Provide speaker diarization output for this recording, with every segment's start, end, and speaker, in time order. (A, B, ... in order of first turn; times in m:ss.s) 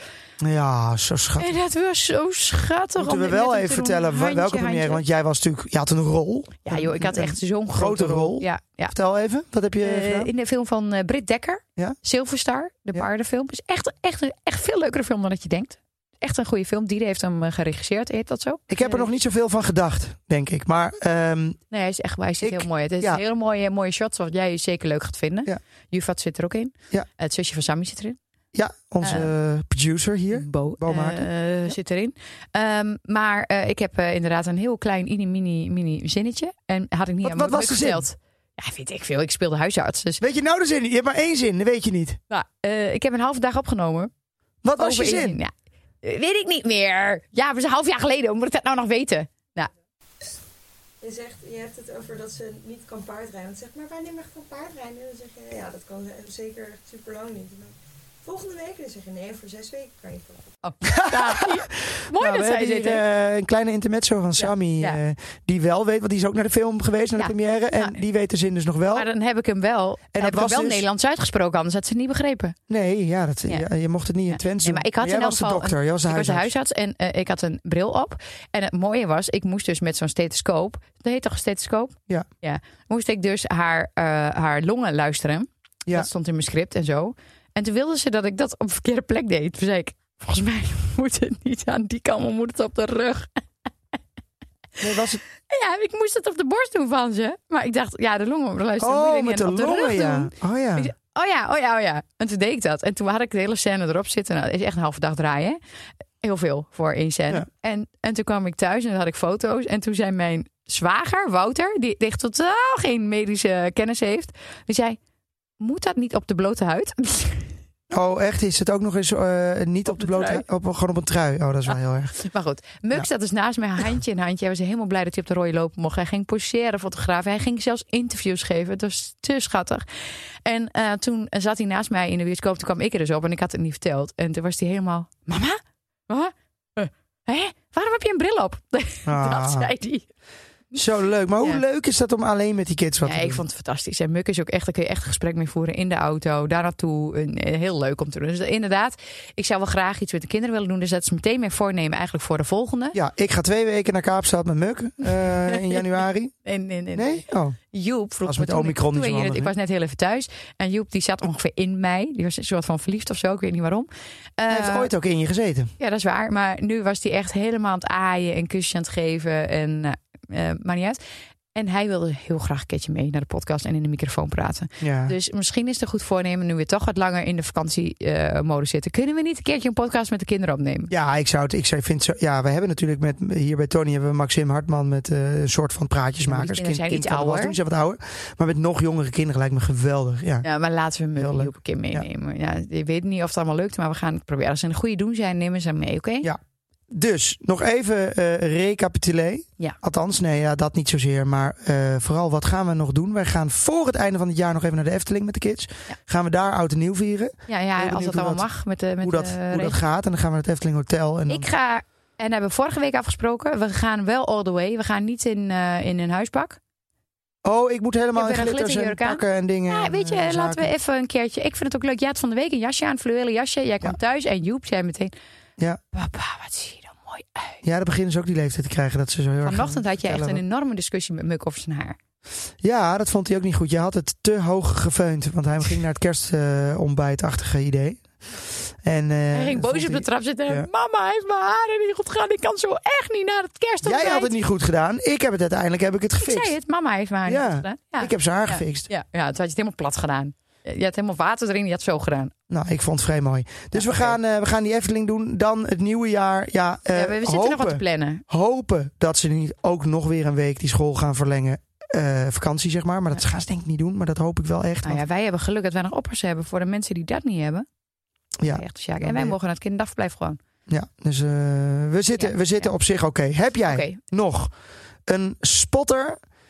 0:00.4-0:01.6 A
0:01.4-0:05.0 B
0:03.0-0:10.3 A
0:06.6-0:08.9 B
0:09.8-0:19.0 B
0:18.7-0:21.6 A
0:21.7-0:28.2 B
0:22.4-0:23.2 A
0:28.5-0:31.7 A
0:29.0-0:29.3 B
0:30.3-0:40.2 B
0:37.2-0:38.0 A
0:40.2-0:42.2 A
0:42.3-0:44.1 B
0:44.6-0:45.4 A
0:44.7-0:49.7 B
0:51.0-1:00.5 C
1:00.6-1:03.0 B
1:00.8-1:09.1 A
1:04.4-1:05.0 B
1:07.2-1:08.0 B
1:08.9-1:12.6 B
1:10.1-1:10.8 A
1:12.7-1:16.5 A
1:14.3-1:33.3 B
1:34.8-1:35.2 A
1:34.8-1:45.6 B
1:38.8-1:40.9 A
1:46.2-1:55.0 B
1:55.6-1:57.5 B
1:57.9-2:02.2 A
1:59.9-2:00.4 B
2:01.7-2:09.8 B
2:10.4-2:20.1 B
2:19.0-2:19.7 A
2:20.7-2:23.4 A
2:23.0-2:33.0 B
2:32.9-2:36.3 A
2:35.2-2:35.8 B
2:36.4-2:44.9 B
2:36.9-2:37.6 A
2:38.2-2:39.5 A
2:44.5-2:45.7 A
2:45.8-2:51.0 B
2:51.5-3:00.9 B
2:54.8-2:55.1 A
3:00.9-3:10.4 A
3:06.3-3:07.6 B
3:10.4-3:16.3 B
3:11.2-3:12.0 A
3:16.2-3:28.4 A
3:27.5-3:29.8 B
3:29.0-3:31.5 A
3:31.3-3:36.6 B
3:37.4-3:40.7 A
3:38.1-3:45.1 B
3:45.9-3:47.6 B
3:47.6-3:50.4 A
3:49.4-3:52.0 B
3:52.6-3:58.0 A
3:58.8-4:00.7 A
3:59.3-4:04.3 B
4:03.8-4:06.5 A
4:06.2-4:12.3 B
4:07.3-4:08.9 A
4:12.5-4:25.0 A
4:13.7-4:14.2 B
4:16.9-4:18.2 B
4:24.8-4:27.6 B
4:28.4-4:29.3 A
4:28.5-4:30.4 B
4:30.7-4:34.5 A
4:32.2-4:32.7 B
4:33.7-4:34.0 B
4:35.0-4:36.2 A